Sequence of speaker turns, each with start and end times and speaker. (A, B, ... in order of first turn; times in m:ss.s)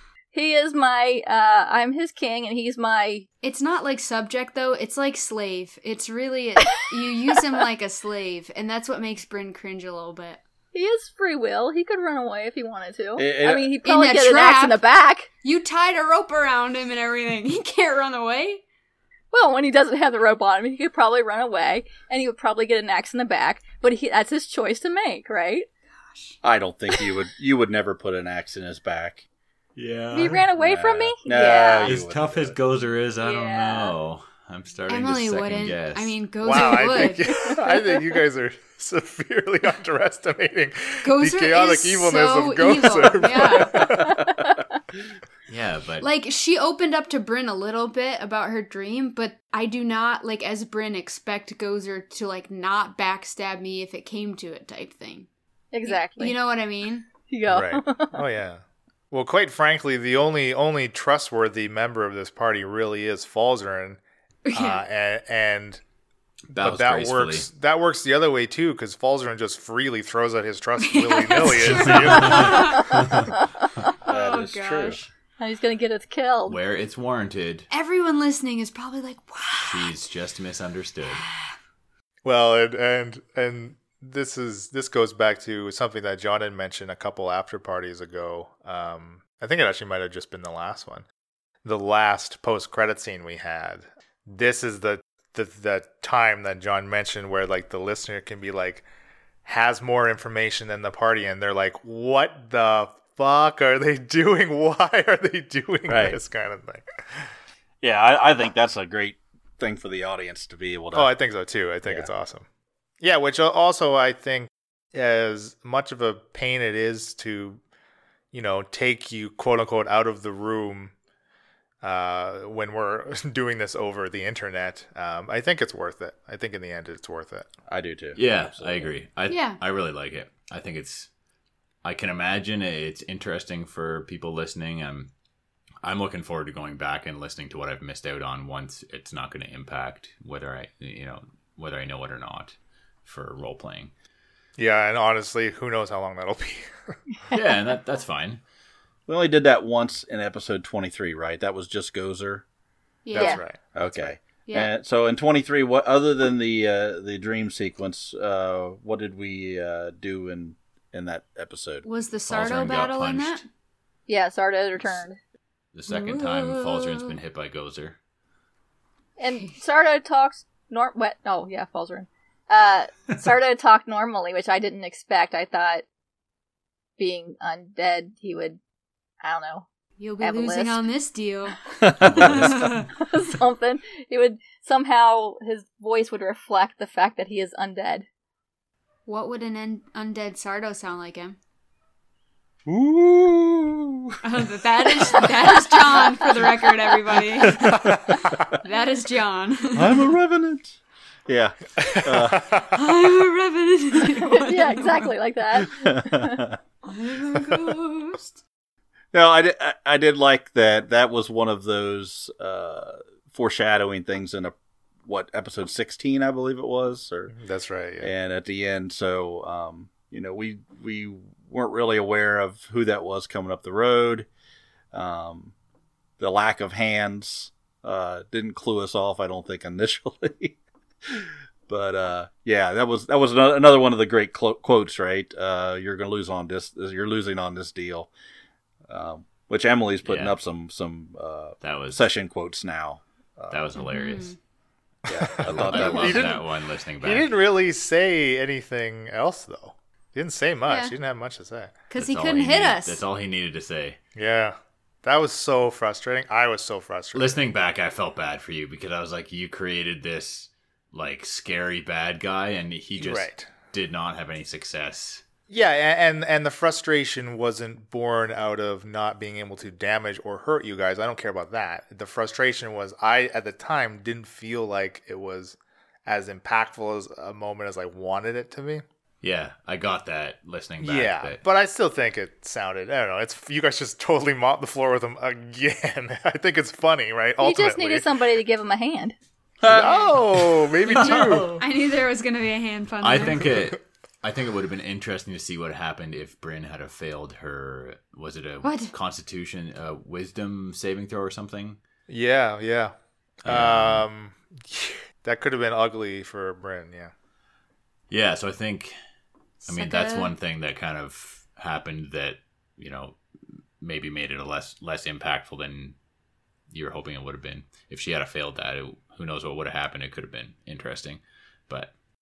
0:00.3-0:03.3 A
0:03.4-0:10.4 B
0:10.7-0:15.3 A
0:13.2-0:13.7 C
0:13.8-0:14.8 B
0:15.4-0:18.6 B
0:19.3-0:25.7 A
0:26.1-0:26.4 B
0:26.4-0:29.2 C
0:29.8-0:30.5 D
0:30.1-0:31.9 A
0:30.5-0:32.6 C
0:31.8-0:36.1 D
0:33.2-0:33.9 A
0:34.9-0:37.5 B
0:36.4-0:44.2 E
0:37.3-0:37.6 A
0:41.0-0:44.0 B
0:43.7-0:44.6 A
0:45.5-0:46.1 D
0:46.0-0:55.3 B
0:55.7-0:56.4 A
0:55.9-0:57.1 B
0:57.3-0:58.2 A
0:57.5-1:04.0 E
1:04.5-1:04.8 B
1:04.5-1:05.8 E
1:06.5-1:12.8 E
1:06.5-1:07.5 D
1:10.8-1:13.3 B
1:11.5-1:13.4 D
1:12.9-1:13.7 A
1:14.0-1:15.0 B
1:14.1-1:15.1 C
1:15.4-1:16.6 A
1:16.5-1:17.7 D
1:17.7-1:19.9 B
1:19.6-1:21.2 D
1:22.2-1:31.1 E
1:31.6-1:38.8 E
1:39.4-1:47.3 E
1:45.9-1:46.2 C
1:47.8-1:51.1 C
1:50.9-1:52.4 E
1:53.0-1:57.6 E
1:58.3-2:00.9 E
2:01.8-2:07.5 E
2:07.7-2:08.9 C
2:08.1-2:11.1 D
2:09.3-2:09.6 B
2:11.8-2:15.1 D
2:15.8-2:23.9 D
2:24.6-2:27.0 E
2:27.3-2:28.4 D
2:29.1-2:32.4 C
2:33.0-2:33.4 B
2:33.1-2:33.6 E
2:33.2-2:33.4 A
2:33.7-2:41.8 C
2:34.5-2:34.7 B
2:41.8-2:43.4 B
2:42.3-2:43.4 D
2:44.1-2:45.2 A
2:45.7-2:48.0 D
2:45.9-2:47.1 B
2:49.2-2:55.8 A
2:57.0-2:58.6 A
2:59.2-2:59.7 A
3:00.0-3:02.9 B
3:00.2-3:00.9 A
3:01.8-3:02.5 C
3:02.9-3:08.1 A
3:09.1-3:11.4 B
3:12.6-3:14.2 C
3:14.2-3:20.1 B
3:17.3-3:18.1 C
3:19.8-3:22.6 C
3:21.8-3:22.7 E
3:22.7-3:25.1 B
3:24.0-3:26.4 A
3:25.6-3:26.6 C
3:26.8-3:28.4 B
3:29.1-3:34.5 C
3:35.0-3:37.3 C
3:37.3-3:38.1 E
3:38.0-3:44.3 C
3:44.9-3:45.5 C
3:46.2-3:58.1 C
3:58.9-4:03.7 C
4:00.0-4:00.4 D
4:01.6-4:02.1 D
4:03.5-4:04.4 D
4:03.8-4:04.4 B
4:05.1-4:06.3 C
4:05.1-4:06.4 E
4:05.4-4:07.3 D
4:07.0-4:11.8 E
4:10.7-4:10.9 B
4:11.9-4:13.0 B
4:12.0-4:14.0 D
4:14.1-4:17.4 E
4:17.1-4:25.2 D
4:23.0-4:23.5 E
4:25.5-4:38.8 E
4:39.2-4:41.4 D
4:40.8-4:48.1 E
4:47.4-4:49.2 A
4:49.6-4:50.0 C
4:49.6-4:51.6 E
4:49.7-4:50.2 B
4:50.8-4:53.6 B
4:51.0-4:51.6 D
4:53.0-5:01.8 D
4:58.6-4:58.9 B
5:02.1-5:07.1 E
5:03.4-5:04.1 D
5:08.1-5:09.0 D
5:09.6-5:10.3 B
5:09.7-5:13.2 D
5:13.8-5:16.0 D
5:16.7-5:21.9 D